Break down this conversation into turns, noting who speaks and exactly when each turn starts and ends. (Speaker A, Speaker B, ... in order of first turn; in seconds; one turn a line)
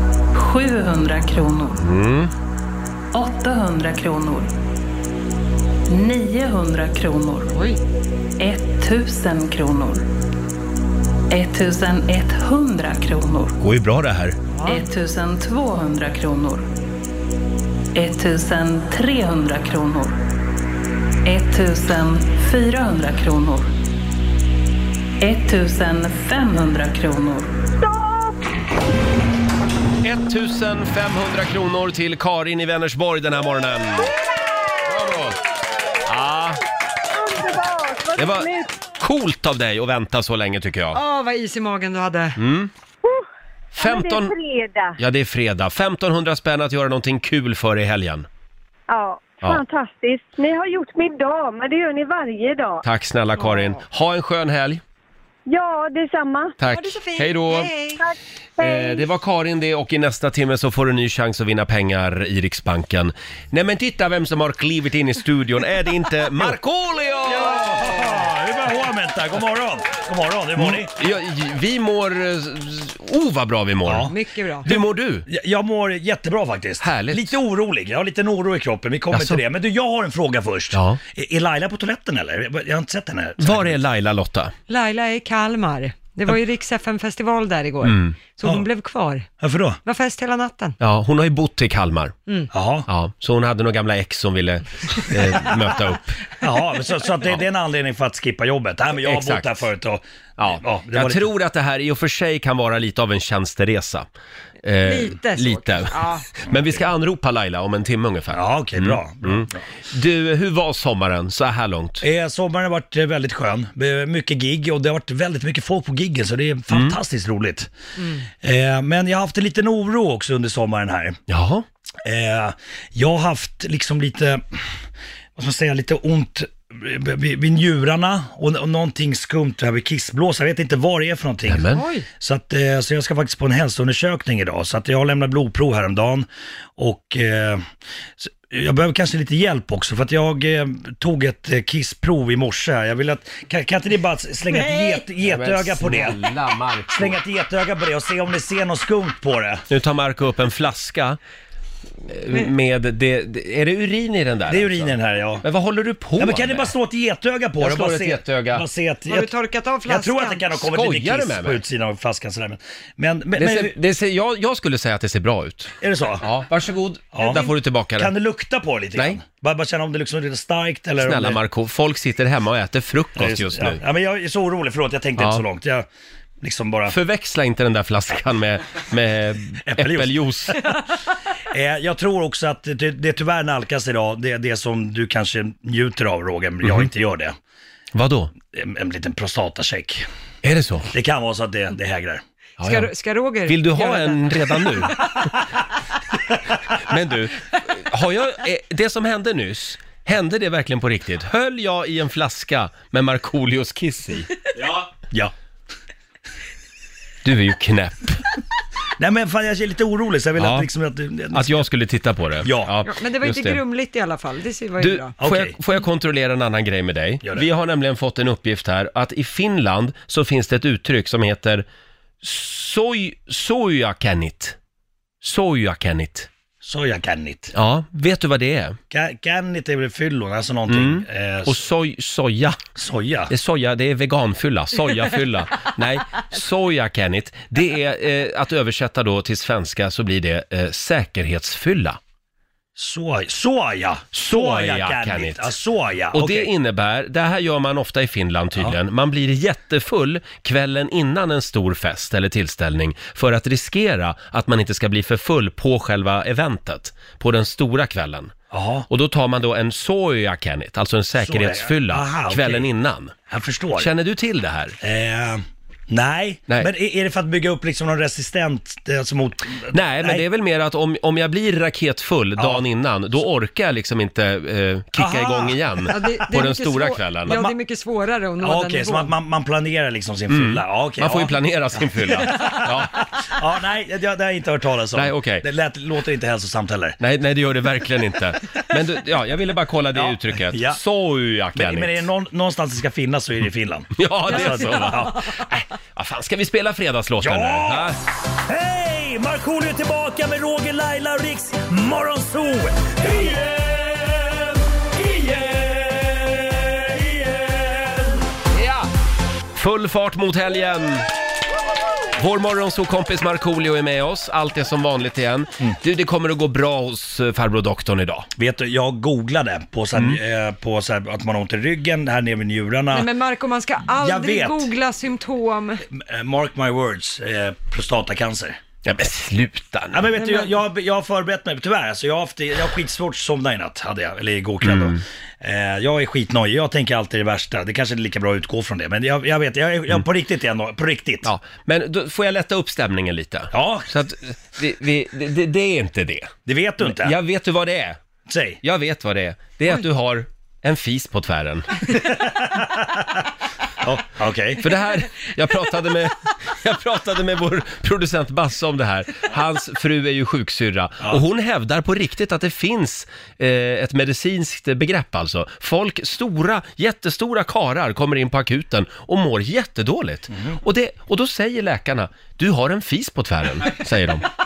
Speaker A: 0.3-1.8
Speaker B: 1.8-2.3
Speaker A: 3.1-4.5
Speaker A: 5.9-7.5
Speaker C: 7.5-7.8
Speaker A: 8.4-10.1
Speaker A: 11.3-13.6
Speaker B: 13.6-14.4
Speaker C: 14.5-14.9
Speaker A: 14.7-16.7
Speaker A: 17.9-20.2
Speaker A: 21.2-23.7
Speaker A: 25.2-27.6
Speaker D: 27.8-28.4
Speaker B: 30.0-34.1
Speaker D: 34.0-35.3
Speaker B: 34.9-35.4
Speaker B: 36.0-36.6
Speaker D: 37.1-38.7
Speaker B: 38.2-41.0
Speaker C: 40.9-42.4
Speaker B: 42.4-42.7
Speaker D: 43.0-45.0
Speaker B: 43.8-44.3
Speaker B: 45.0-48.3
Speaker D: 48.9-52.8
Speaker B: 52.8-54.8
Speaker C: 53.4-53.8
Speaker D: 55.5-56.5
Speaker B: 56.6-57.7
Speaker C: 56.7-58.0
Speaker D: 58.0-59.0
Speaker B: 58.6-67.6
Speaker E: 67.3-70.9
Speaker B: 70.6-74.1
Speaker E: 73.8-74.1
Speaker C: 74.1-74.7
Speaker B: 74.6-75.3
Speaker E: 74.7-83.8
Speaker B: 76.8-77.4
Speaker B: 79.1-79.4
Speaker B: 80.7-81.0
Speaker B: 83.4-84.5
Speaker C: 84.7-89.3
Speaker B: 87.8-88.2
Speaker E: 89.4-89.8
Speaker C: 89.8-90.8
Speaker B: 90.8-92.2
Speaker E: 92.5-92.9
Speaker B: 92.9-96.2
Speaker E: 96.4-101.3
Speaker B: 99.0-99.7
Speaker B: 100.4-104.1
Speaker B: 104.6-112.0
Speaker C: 104.8-106.3
Speaker E: 108.3-109.6
Speaker E: 112.0-117.7
Speaker B: 116.7-117.0
Speaker C: 118.0-118.2
Speaker E: 118.3-121.2
Speaker B: 121.3-121.7
Speaker E: 122.0-124.7
Speaker E: 125.4-137.7
Speaker B: 131.5-131.8
Speaker C: 131.7-132.1
Speaker E: 138.2-146.2
Speaker B: 144.9-147.2
Speaker E: 146.9-149.7
Speaker B: 149.7-151.2
Speaker B: 152.1-156.7
Speaker E: 154.5-155.4
Speaker E: 156.2-159.3
Speaker B: 157.6-158.6
Speaker C: 159.1-160.5
Speaker E: 159.8-163.8
Speaker B: 160.6-161.6
Speaker B: 163.3-168.1
Speaker E: 165.8-166.2
Speaker E: 167.1-171.4
Speaker B: 168.9-169.2
Speaker B: 171.0-173.8
Speaker E: 173.2-175.9
Speaker B: 175.2-175.4
Speaker E: 176.4-176.9
Speaker B: 176.9-180.6
Speaker E: 179.7-180.5
Speaker E: 181.5-187.3
Speaker B: 186.6-186.9
Speaker B: 187.9-188.3
Speaker E: 188.5-190.1
Speaker B: 190.4-190.9
Speaker E: 190.9-192.2
Speaker B: 192.6-192.9
Speaker C: 192.6-194.9
Speaker B: 193.4-195.0
Speaker B: 196.8-204.3
Speaker B: 207.2-208.2
Speaker E: 209.0-211.7
Speaker B: 210.4-210.7
Speaker B: 211.3-213.6
Speaker E: 212.4-212.7
Speaker C: 212.8-215.2
Speaker B: 214.8-221.7
Speaker E: 215.2-215.6
Speaker B: 222.2-224.6
Speaker B: 225.2-226.3
Speaker E: 226.6-227.5
Speaker B: 227.5-228.8
Speaker E: 228.9-231.6
Speaker B: 230.7-232.6
Speaker E: 232.8-233.3
Speaker B: 233.3-242.0
Speaker E: 242.8-246.5
Speaker B: 244.1-245.5
Speaker B: 246.1-258.3
Speaker E: 258.5-258.9
Speaker B: 258.9-263.1
Speaker E: 261.2-262.7
Speaker E: 263.3-263.9
Speaker B: 263.8-264.8
Speaker E: 264.8-270.2
Speaker B: 269.7-277.4
Speaker E: 272.4-272.6
Speaker E: 274.9-275.7
Speaker C: 275.9-279.1
Speaker E: 278.4-281.4
Speaker B: 280.3-283.0
Speaker E: 282.0-282.5
Speaker E: 283.2-287.0
Speaker B: 284.9-285.4
Speaker B: 287.0-292.1
Speaker E: 289.9-290.8
Speaker E: 291.6-295.2
Speaker B: 294.0-298.0
Speaker C: 294.3-295.1
Speaker E: 297.2-308.2
Speaker B: 308.5-308.9
Speaker B: 309.6-311.1
Speaker B: 312.1-318.3
Speaker E: 318.4-323.1
Speaker C: 322.9-325.8
Speaker E: 324.0-324.7
Speaker E: 325.9-328.6
Speaker B: 328.8-330.1
Speaker E: 329.9-341.3
Speaker C: 330.2-330.5
Speaker B: 334.6-335.0
Speaker B: 341.2-348.0
Speaker E: 343.5-343.9
Speaker E: 346.5-347.2
Speaker E: 348.3-348.6
Speaker B: 348.6-351.9
Speaker E: 352.0-353.1
Speaker E: 353.8-354.6
Speaker B: 354.6-374.3
Speaker E: 370.3-370.6